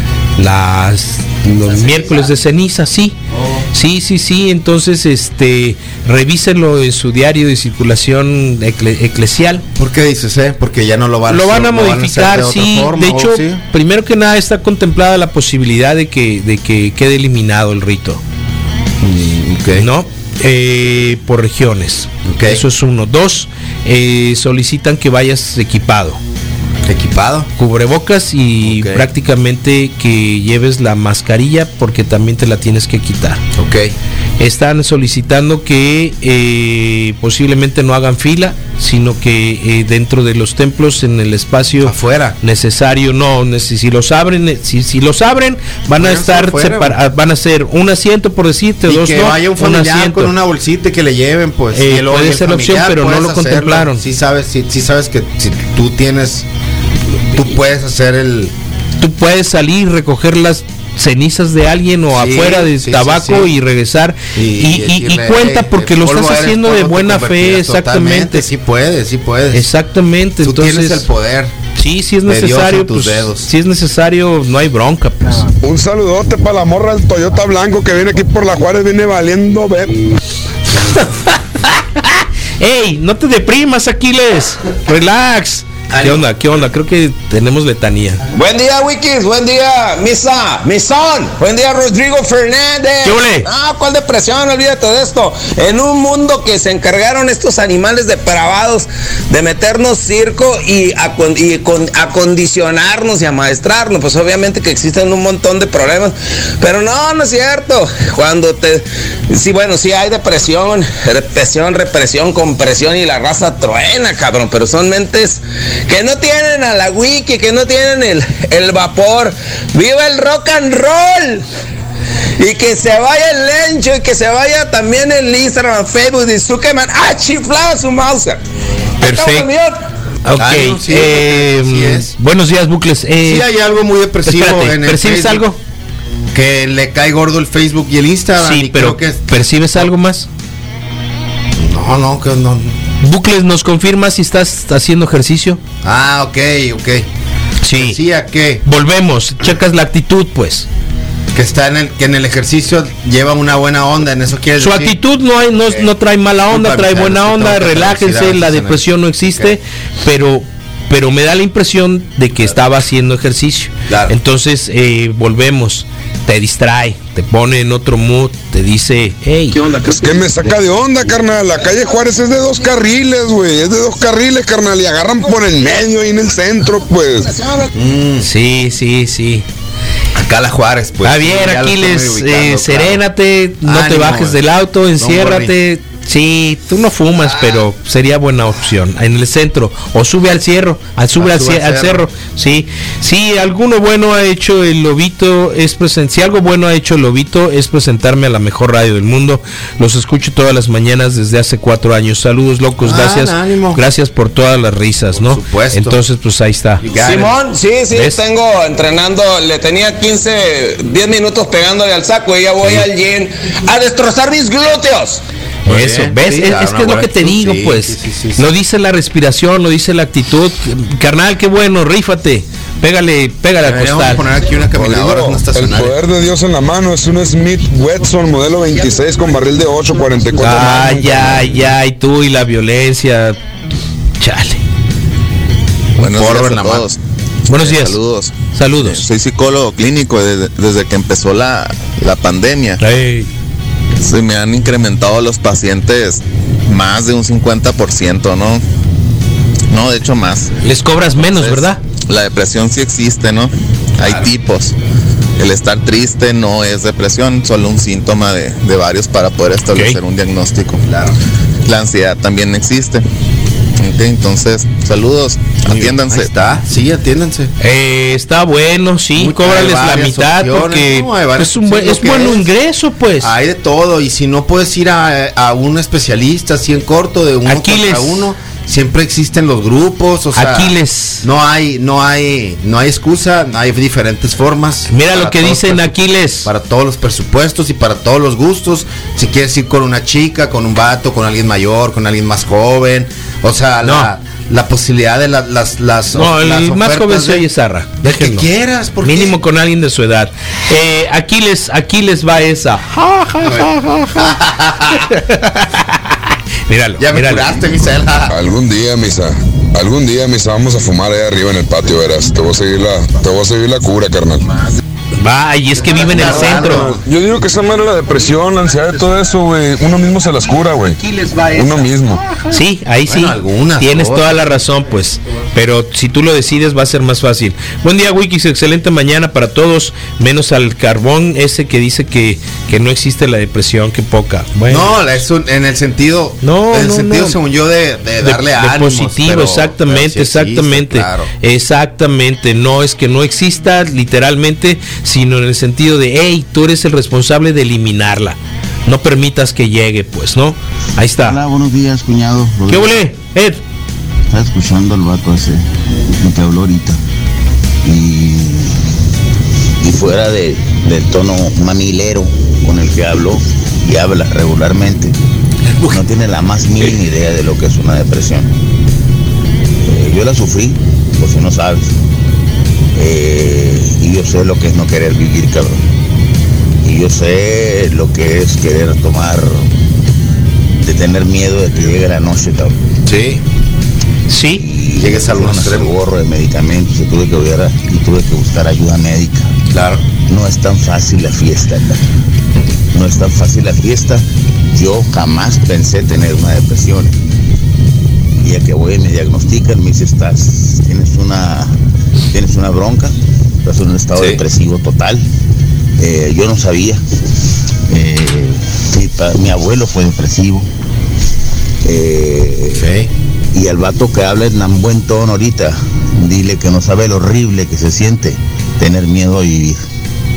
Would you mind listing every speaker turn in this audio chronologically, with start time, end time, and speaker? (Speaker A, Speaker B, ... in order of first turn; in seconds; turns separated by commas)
Speaker A: 0.4-3.2, Speaker B: 1.8-2.2, Speaker B: 3.3-3.6, Speaker A: 3.7-9.6, Speaker B: 9.8-13.6, Speaker A: 11.3-18.2, Speaker B: 19.0-19.9, Speaker A: 19.8-26.2, Speaker B: 22.2-22.6, Speaker B: 26.9-27.5, Speaker A: 27.6-33.4, Speaker B: 28.6-29.1, Speaker B: 33.6-33.9, Speaker A: 34.4-50.3, Speaker B: 41.8-42.4, Speaker B: 46.0-47.0, Speaker B: 48.9-56.5, Speaker A: 51.7-54.0, Speaker B: 57.3-58.5, Speaker A: 59.0-68.5, Speaker B: 62.1-63.5, Speaker B: 64.3-69.7, Speaker A: 69.5-71.1, Speaker B: 70.4-71.5, Speaker A: 71.8-75.5, Speaker B: 72.3-73.5, Speaker C: 75.6-80.0, Speaker A: 80.8-88.2, Speaker B: 85.9-86.3, Speaker D: 88.3-121.5, Speaker A: 93.0-93.5, Speaker D: 122.4-128.4, Speaker D: 129.0-129.8, Speaker A: 129.0-129.5, Speaker A: 130.2-133.5, Speaker B: 130.3-132.1, Speaker B: 133.2-135.4, Speaker A: 134.2-135.6, Speaker B: 136.3-139.9, Speaker A: 138.4-140.3, Speaker B: 141.6-142.8, Speaker A: 143.0-145.6, Speaker B: 145.8-147.1, Speaker A: 147.6-148.0, Speaker B: 147.7-148.6, Speaker A: 148.7-150.7, Speaker B: 151.3-155.0, Speaker A: 154.6-169.8, Speaker B: 155.7-155.9, Speaker B: 156.5-159.6, Speaker B: 163.9-164.2, Speaker C: 169.7-177.3, Speaker D: 177.4-177.7, Speaker B: 177.7-178.3, Speaker A: 178.2-179.4, Speaker B: 180.1-183.0, Speaker A: 181.0-206.8, Speaker B: 183.6-184.4, Speaker B: 185.0-185.6, Speaker B: 187.2-187.6, Speaker B: 191.2-192.1, Speaker B: 202.8-203.8, Speaker B: 205.1-206.0, Speaker B: 206.8-207.3, Speaker D: 206.9-215.2, Speaker A: 207.9-208.2, Speaker B: 215.7-218.4, Speaker A: 215.7-224.2, Speaker B: 223.6-226.0, Speaker C: 224.7-231.7, Speaker A: 230.4-233.4, Speaker A: 234.2-234.6, Speaker B: 236.0-236.9, Speaker E: 236.0-237.0, Speaker A: 237.5-238.0, Speaker E: 237.5-242.8, Speaker A: 238.5-239.0, Speaker A: 242.8-243.3, Speaker E: 244.0-248.6, Speaker E: 249.7-250.6, Speaker A: 250.6-251.8, Speaker E: 251.2-254.7, Speaker B: 254.0-254.3, Speaker E: 255.4-260.8, Speaker A: 259.7-260.0, Speaker B: 260.9-261.2, Speaker E: 261.6-263.0, Speaker E: 263.8-266.3, Speaker B: 265.6-267.5, Speaker A: 267.6-273.3, Speaker B: 269.2-272.5, Speaker B: 273.2-297.4, Speaker A: 277.5-278.2, Speaker A: 280.3-281.2, Speaker A: 284.9-286.5, Speaker A: 293.8-294.1, Speaker A: 296.1-298.5, Speaker B: 298.0-299.4, Speaker A: 299.0-304.4, Speaker B: 303.4-305.1, Speaker A: 305.0-306.0, Speaker A: 306.7-307.5, Speaker B: 307.0-308.4, Speaker C: 308.3-314.5, Speaker A: 315.2-316.9, Speaker B: 315.8-317.0, Speaker C: 316.2-322.2, Speaker A: 322.5-335.0, Speaker B: 323.1-324.6, Speaker B: 334.7-341.3, Speaker A: 336.4-337.4, Speaker A: 338.2-351.4, Speaker F: 351.3-353.0, Speaker A: 352.7-353.6, Speaker F: 354.3-357.0, Speaker F: 357.8-358.8, Speaker F: 359.8-365.1, Speaker F: 365.9-368.5, Speaker F: 369.8-371.9, Speaker F: 372.9-375.8, Speaker F: 376.8-379.7, Speaker F: 380.8-382.8, Speaker B: 383.1-383.4, Speaker A: 384.3-384.6, Speaker F: 384.6-389.5, Speaker B: 385.0-385.9, Speaker B: 389.7-390.1, Speaker F: 390.2-392.0, Speaker F: 392.9-397.1, Speaker F: 398.4-401.7, Speaker F: 402.3-405.3, Speaker B: 404.1-404.4, Speaker F: 406.0-407.0, Speaker F: 407.9-410.7, Speaker F: 411.8-412.9, Speaker B: 412.7-413.1, Speaker F: 413.5-419.8